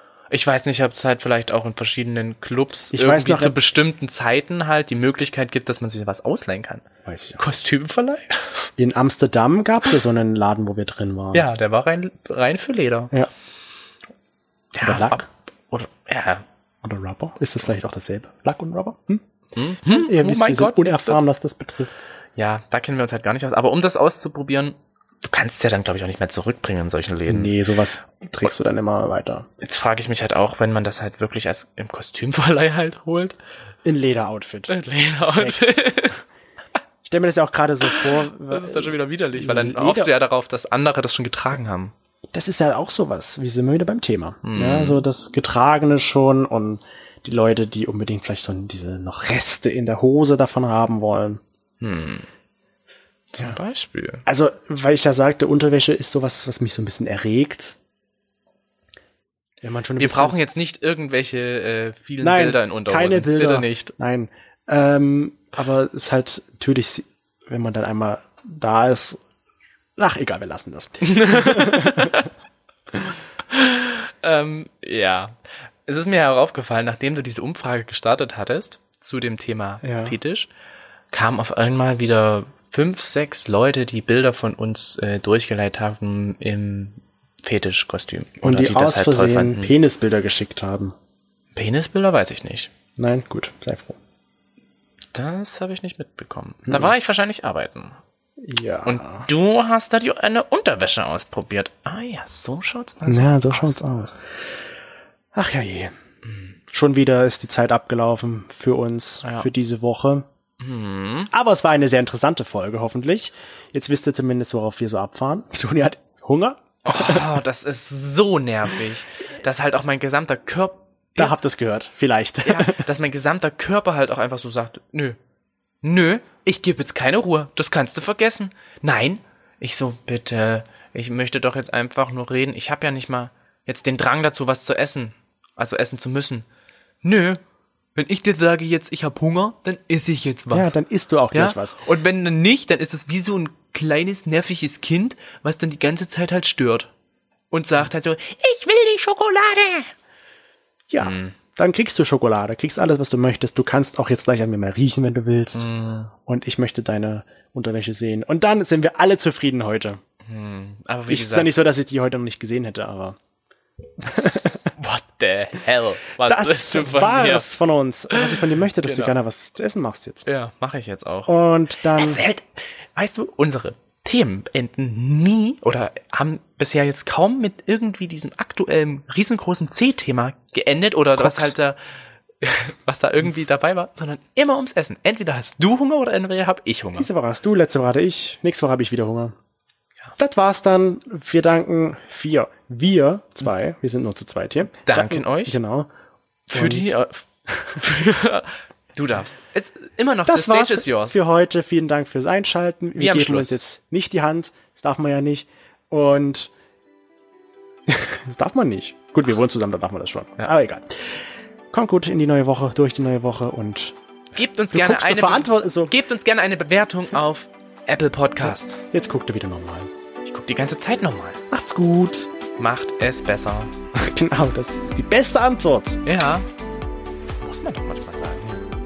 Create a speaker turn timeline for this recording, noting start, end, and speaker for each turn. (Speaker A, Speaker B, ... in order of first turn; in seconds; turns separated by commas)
Speaker A: 0.3-6.9, Speaker B: 2.9-3.6, Speaker B: 7.0-7.4, Speaker A: 7.4-8.5, Speaker B: 8.8-11.5, Speaker A: 11.3-13.1, Speaker A: 14.7-16.4, Speaker B: 14.8-15.2, Speaker B: 16.8-19.2, Speaker A: 19.6-21.3, Speaker B: 19.9-22.0, Speaker A: 22.4-27.6, Speaker B: 27.3-29.5, Speaker A: 29.6-33.4, Speaker B: 33.8-35.8, Speaker A: 34.7-36.2, Speaker B: 37.0-40.1, Speaker A: 37.9-41.9, Speaker B: 42.3-51.4, Speaker A: 44.4-45.0, Speaker A: 51.8-52.3, Speaker A: 53.3-54.2, Speaker B: 54.3-57.8, Speaker B: 59.6-60.4, Speaker A: 60.0-63.9, Speaker B: 62.2-69.2, Speaker B: 70.0-72.3, Speaker A: 71.0-72.3, Speaker A: 73.5-80.5, Speaker B: 79.8-80.2, Speaker A: 81.1-89.7, Speaker B: 88.4-91.0, Speaker A: 91.5-92.7, Speaker B: 93.0-94.0, Speaker A: 95.1-98.0, Speaker B: 98.4-99.3, Speaker A: 98.9-103.8, Speaker B: 103.1-104.2, Speaker B: 105.3-105.9, Speaker B: 106.7-110.3, Speaker A: 110.6-111.3, Speaker B: 111.3-117.3, Speaker A: 116.8-121.3, Speaker B: 121.2-122.8, Speaker A: 122.5-125.2, Speaker A: 125.8-136.5, Speaker A: 137.0-137.4, Speaker A: 138.0-140.7, Speaker B: 140.5-141.8, Speaker A: 141.3-146.9, Speaker A: 147.5-149.9, Speaker B: 150.9-155.7, Speaker A: 151.0-151.4, Speaker A: 155.5-156.1, Speaker B: 156.3-160.0, Speaker A: 160.2-161.5, Speaker B: 161.1-163.2, Speaker B: 164.0-164.7, Speaker A: 164.8-167.5, Speaker B: 166.2-170.3, Speaker A: 168.1-169.1, Speaker A: 170.3-172.4, Speaker B: 171.3-172.2, Speaker A: 172.9-181.8, Speaker B: 181.2-181.6, Speaker A: 182.4-187.1, Speaker B: 187.0-189.3, Speaker B: 190.2-195.9, Speaker A: 194.8-195.6, Speaker A: 196.5-201.2, Speaker B: 196.5-196.9, Speaker B: 200.3-206.5, Speaker A: 203.0-203.6, Speaker B: 207.9-214.0, Speaker A: 214.3-218.8, Speaker B: 214.7-215.9, Speaker B: 218.4-219.9, Speaker A: 220.2-221.4, Speaker B: 221.5-222.3, Speaker A: 222.6-223.7, Speaker B: 223.9-226.0, Speaker A: 226.1-226.5, Speaker A: 227.4-228.5